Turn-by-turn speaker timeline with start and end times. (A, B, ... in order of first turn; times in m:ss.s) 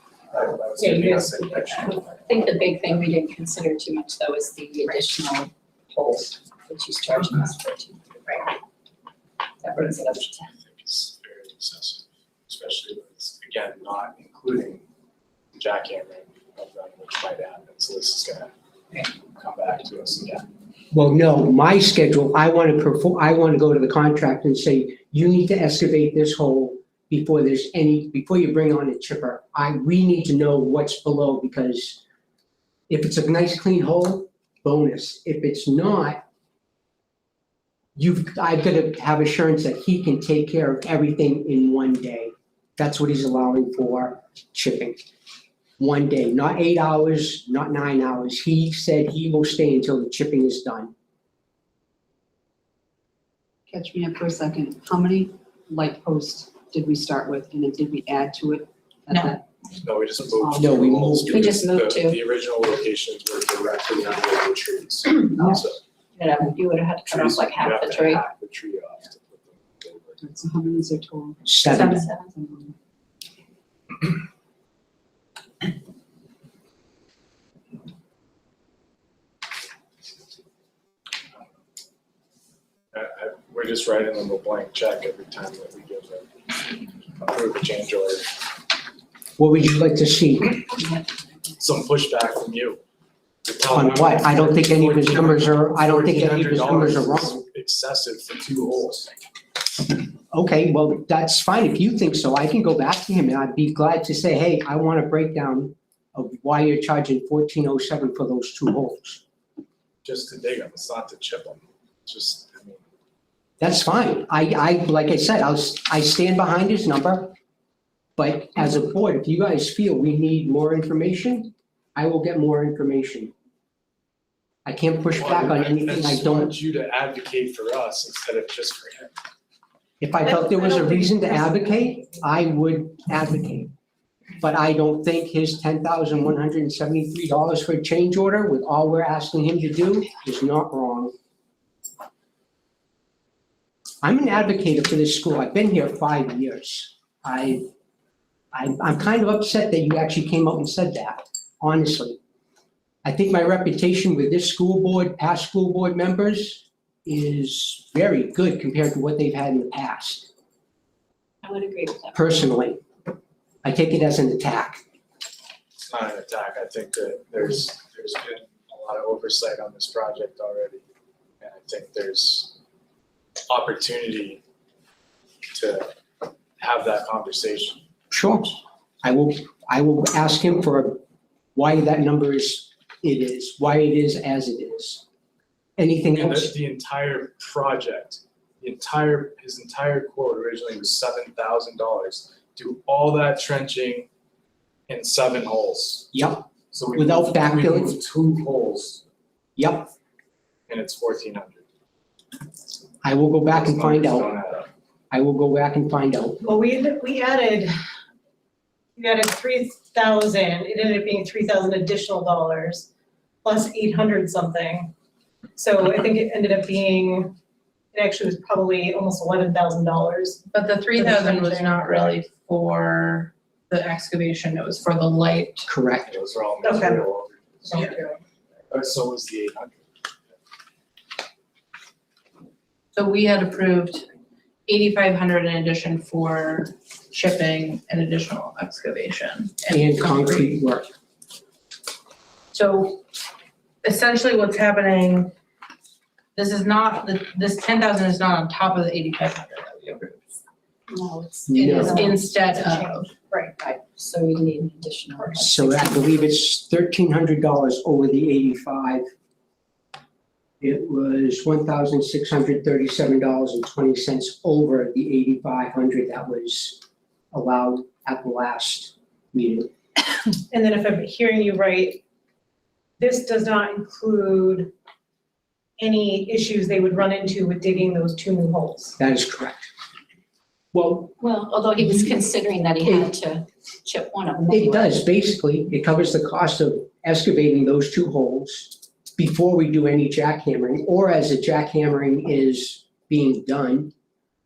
0:00.3-0:02.3 A
0:01.8-0:08.5 B
0:09.6-0:10.5 B
0:10.0-0:14.8 A
0:15.6-0:20.5 A
0:20.9-0:32.0 C
0:32.9-0:36.2 C
0:38.0-0:45.0 C
0:45.8-0:50.9 C
0:53.7-0:59.4 D
0:59.8-1:05.8 A
1:00.4-1:00.7 D
1:00.6-1:01.6 C
1:01.3-1:02.2 B
1:05.4-1:05.6 D
1:06.2-1:08.2 B
1:07.1-1:10.2 A
1:10.2-1:12.8 D
1:11.5-1:12.0 C
1:11.7-1:12.0 E
1:11.7-1:12.3 B
1:22.9-1:26.3 A
1:27.2-1:28.3 A
1:29.4-1:30.6 C
1:31.6-1:32.8 A
1:33.5-1:39.2 A
1:33.7-1:37.4 C
1:40.3-1:49.2 C
1:50.0-1:52.8 A
1:53.6-1:57.3 C
1:58.2-2:03.3 C
2:04.6-2:06.6 C
2:05.1-2:09.1 A
2:10.0-2:13.7 C
2:10.3-2:11.9 F
2:14.4-2:21.1 C
2:24.0-2:27.7 C
2:28.5-2:32.2 C
2:33.0-2:40.3 C
2:41.4-2:42.4 B
2:42.1-2:42.8 C
2:43.6-2:44.8 C
2:45.9-2:50.8 A
2:51.4-2:52.6 A
2:53.5-2:54.4 A
2:55.5-2:55.9 A
2:56.6-2:57.8 A
2:58.1-3:01.0 C
3:01.6-3:05.0 C
3:05.8-3:06.5 C
3:06.1-3:14.1 A
3:14.9-3:16.2 A
3:16.1-3:18.0 C
3:16.7-3:19.0 A
3:19.6-3:19.9 C
3:20.7-3:21.6 A
3:23.0-3:24.3 C
3:23.5-3:24.7 A
3:25.1-3:26.4 C
3:26.4-3:27.7 F
3:29.0-3:32.9 F
3:33.4-3:34.9 F
3:35.6-3:37.4 F
3:37.9-3:40.4 F
3:40.5-3:45.7 E
3:41.0-3:42.1 F
3:45.7-3:46.1 C
3:46.1-3:48.0 A
3:46.6-3:47.0 F
3:47.7-3:48.2 F
3:48.7-3:49.9 A
3:53.0-3:54.0 E
3:54.7-4:00.6 E
3:59.7-4:00.9 C
4:02.5-4:03.0 E
4:03.8-4:05.3 E
4:06.4-4:10.2 E
4:10.9-4:12.2 B
4:11.5-4:12.0 C
4:11.5-4:13.1 E
4:11.8-4:13.6 F
4:13.6-4:16.3 B
4:15.4-4:19.1 C
4:20.6-4:29.7 C
4:30.5-4:32.0 F
4:33.0-4:34.7 F
4:35.8-4:39.0 F
4:39.0-4:39.7 C
4:40.7-4:41.1 C
4:41.0-4:44.9 B
4:42.8-4:43.1 C
4:44.5-4:53.9 C